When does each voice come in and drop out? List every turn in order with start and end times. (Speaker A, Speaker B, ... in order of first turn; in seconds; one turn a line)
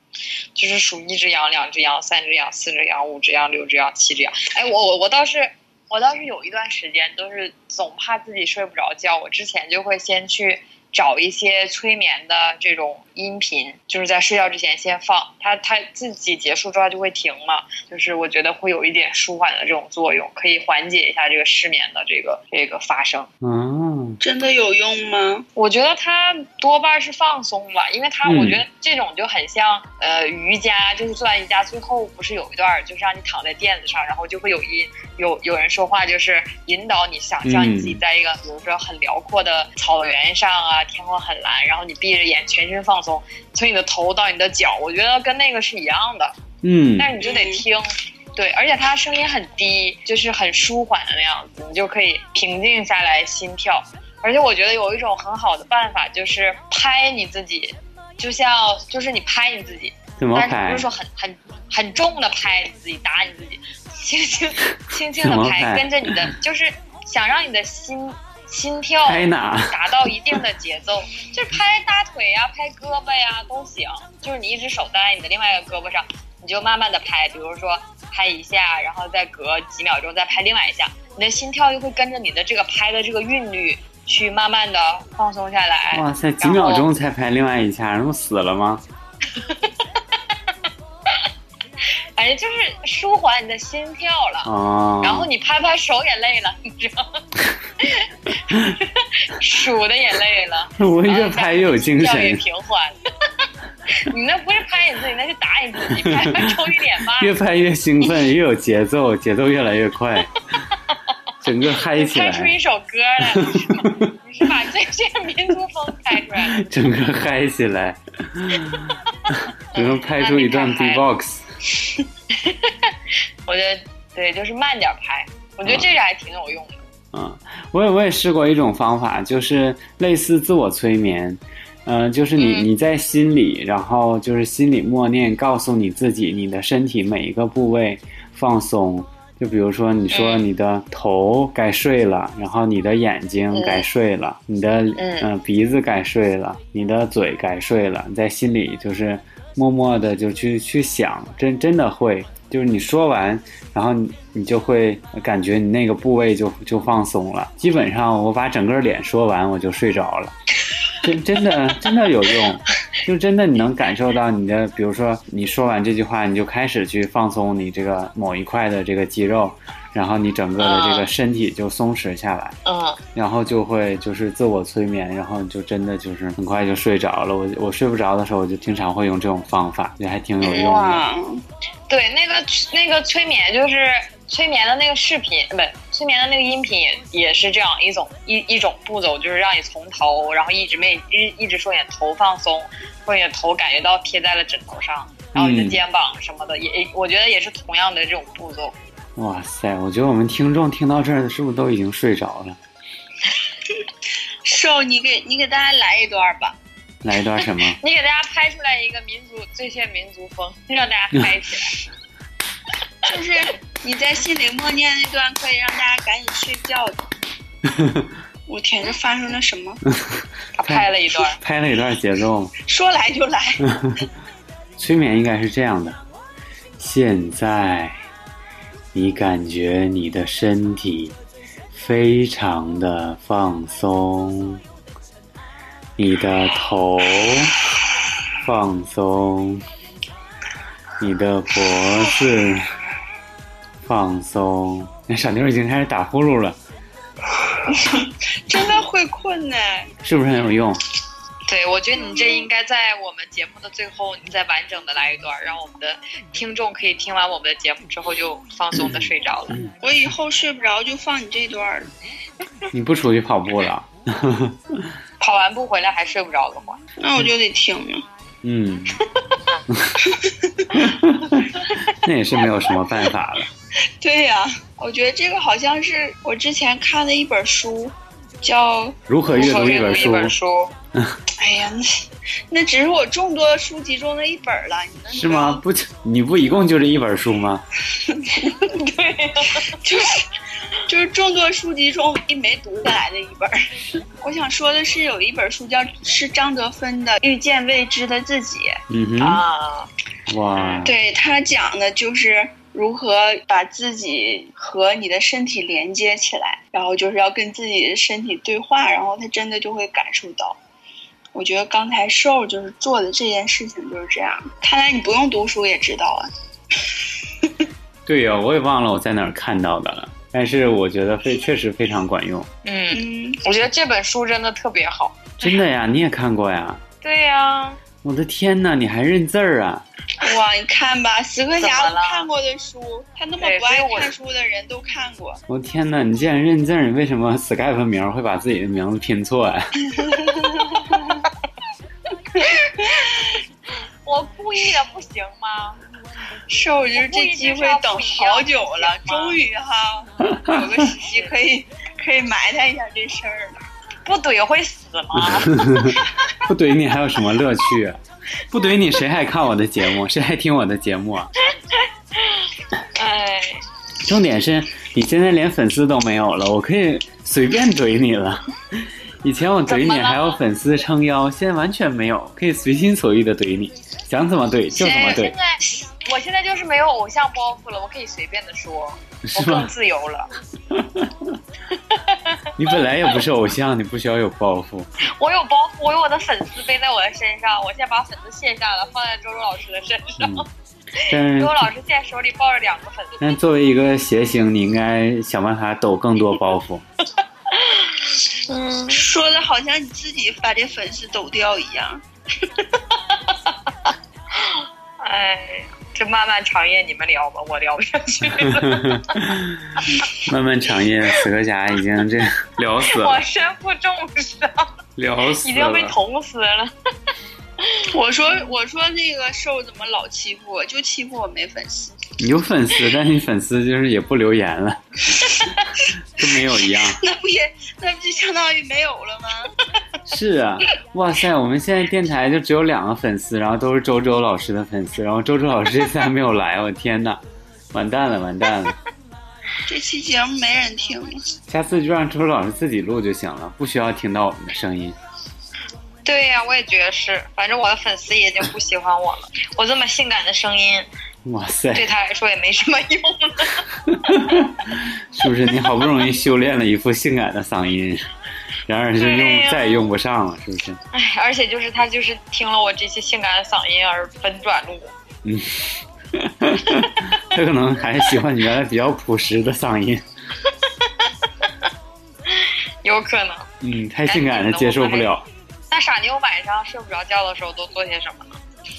Speaker A: 0.5-23.3
Speaker B: 23.4-24.2
Speaker C: 24.2-25.4
Speaker A: 25.6-46.4
Speaker B: 28.2-28.6
Speaker B: 37.4-38.0
Speaker B: 46.6-47.1
Speaker A: 47.0-86.9
Speaker C: 47.2-47.6
Speaker B: 60.2-60.9
Speaker B: 65.2-66.3
Speaker B: 69.0-70.4
Speaker B: 85.9-88.8
Speaker A: 89.3-89.8
Speaker A: 92.2-97.2
Speaker B: 94.4-95.3
Speaker A: 97.8-103.0
Speaker B: 98.5-98.7
Speaker B: 100.8-102.4
Speaker A: 103.9-107.3
Speaker B: 106.0-106.5
Speaker B: 107.2-110.3
Speaker B: 111.4-112.5
Speaker A: 111.8-116.7
Speaker B: 113.3-114.0
Speaker B: 116.3-121.5
Speaker A: 119.7-121.0
Speaker A: 122.3-122.9
Speaker A: 123.5-126.8
Speaker B: 125.6-125.9
Speaker B: 127.1-160.3
Speaker A: 132.4-132.7
Speaker A: 140.1-140.5
Speaker A: 143.5-143.8
Speaker A: 144.9-145.3
Speaker B: 161.0-172.6
Speaker A: 170.6-171.1
Speaker A: 172.6-173.0
Speaker B: 173.1-181.0
Speaker A: 180.4-180.9
Speaker C: 180.5-181.4
Speaker A: 181.9-198.8
Speaker B: 195.3-195.8
Speaker B: 199.2-202.6
Speaker C: 204.4-206.6
Speaker B: 207.0-207.8
Speaker A: 207.6-211.8
Speaker C: 213.0-217.0
Speaker B: 217.6-218.1
Speaker C: 218.5-219.8
Speaker B: 219.9-222.5
Speaker A: 220.5-221.4
Speaker C: 222.6-223.7
Speaker B: 223.6-224.1
Speaker B: 224.8-226.0
Speaker B: 226.8-228.0
Speaker B: 228.9-231.2
Speaker B: 231.7-234.6
Speaker B: 236.0-237.6
Speaker B: 238.4-239.6
Speaker B: 241.0-242.7
Speaker B: 243.8-246.6
Speaker C: 247.7-249.9
Speaker B: 250.0-250.8
Speaker A: 251.5-259.6
Speaker C: 251.9-252.5
Speaker B: 258.7-259.7
Speaker C: 259.8-261.9
Speaker B: 262.7-264.9
Speaker A: 265.2-266.8
Speaker C: 267.0-268.0
Speaker B: 268.4-269.0
Speaker B: 269.7-270.0
Speaker C: 270.0-270.7
Speaker B: 270.7-273.5
Speaker C: 274.0-279.0
Speaker B: 279.1-280.3
Speaker A: 279.3-280.7
Speaker C: 281.3-285.6
Speaker B: 285.1-287.6
Speaker C: 287.9-288.6
Speaker A: 288.4-289.8
Speaker C: 289.6-290.3
Speaker C: 290.9-298.8
Speaker B: 298.9-299.4
Speaker A: 299.2-299.9
Speaker B: 300.3-300.9
Speaker A: 300.6-300.8
Speaker C: 300.8-310.6
Speaker C: 311.3-316.3
Speaker B: 318.1-322.5
Speaker A: 322.6-325.5
Speaker C: 322.9-323.4
Speaker B: 325.4-326.8
Speaker A: 327.0-327.8
Speaker B: 328.0-329.8
Speaker C: 330.2-335.4
Speaker A: 331.6-332.3
Speaker A: 333.4-334.1
Speaker B: 335.5-339.8
Speaker C: 339.8-341.3
Speaker C: 342.3-343.3
Speaker A: 344.0-345.8
Speaker C: 346.5-353.6
Speaker A: 346.9-349.4
Speaker B: 350.3-350.6
Speaker A: 350.6-351.4
Speaker A: 354.0-356.1
Speaker B: 355.1-361.3
Speaker A: 361.4-363.6
Speaker B: 364.0-375.3
Speaker A: 369.7-370.4
Speaker A: 374.7-380.3
Speaker B: 379.2-379.7
Speaker B: 380.7-381.4
Speaker A: 381.7-382.5
Speaker B: 382.6-384.9
Speaker A: 385.0-393.3
Speaker B: 390.2-390.4
Speaker B: 391.0-391.7
Speaker B: 393.2-396.8
Speaker A: 397.5-399.0
Speaker C: 398.9-402.0
Speaker A: 403.1-403.5
Speaker A: 404.3-409.3
Speaker B: 408.4-413.2
Speaker A: 412.9-414.7
Speaker B: 414.9-415.9
Speaker A: 415.4-416.7
Speaker A: 417.6-417.9
Speaker C: 417.9-421.9
Speaker B: 422.2-427.0
Speaker C: 426.2-429.6
Speaker B: 430.1-438.8
Speaker C: 439.6-441.2
Speaker B: 441.5-444.9
Speaker A: 446.0-450.9
Speaker B: 451.2-451.9
Speaker A: 451.7-453.6
Speaker B: 453.7-458.1
Speaker B: 458.7-460.8
Speaker A: 459.0-459.9
Speaker A: 460.9-464.9
Speaker B: 465.2-470.0
Speaker A: 470.5-471.5
Speaker A: 472.3-473.5
Speaker B: 473.6-475.2
Speaker A: 474.1-475.1
Speaker A: 475.7-478.4